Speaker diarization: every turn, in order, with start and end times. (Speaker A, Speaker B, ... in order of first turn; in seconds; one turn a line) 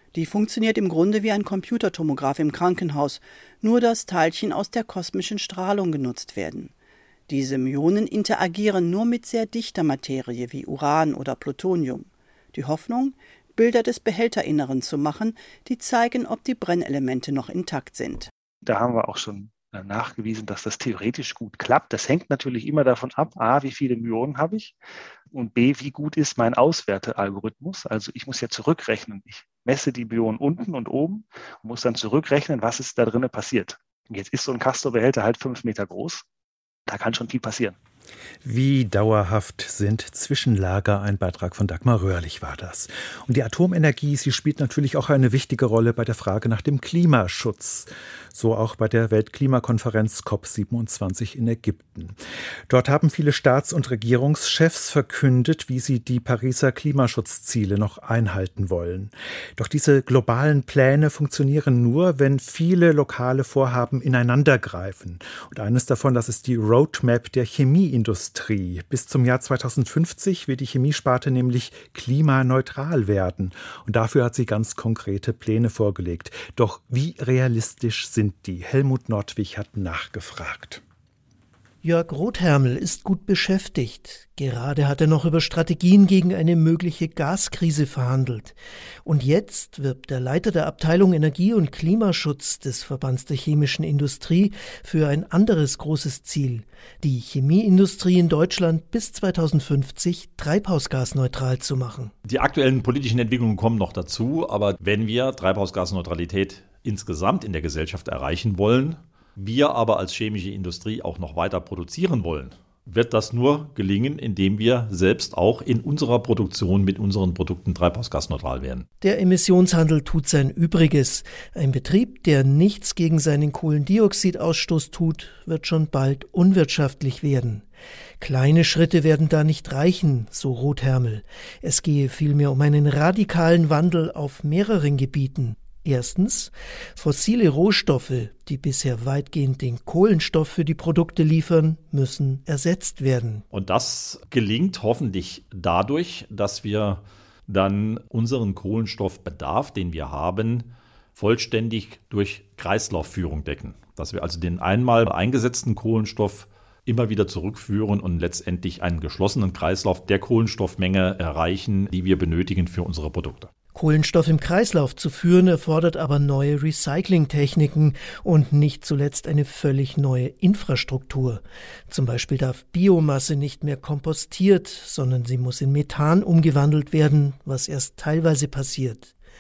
Speaker A: 0.1-6.7
Speaker A: 7.3-18.3
Speaker B: 18.6-24.8
Speaker B: 25.3-36.2
Speaker B: 36.9-37.8
Speaker C: 38.4-80.8
Speaker D: 81.8-102.1
Speaker E: 102.2-118.9
Speaker D: 119.0-127.7
Speaker D: 128.2-143.4
Speaker E: 143.5-163.5
Speaker D: 163.7-179.1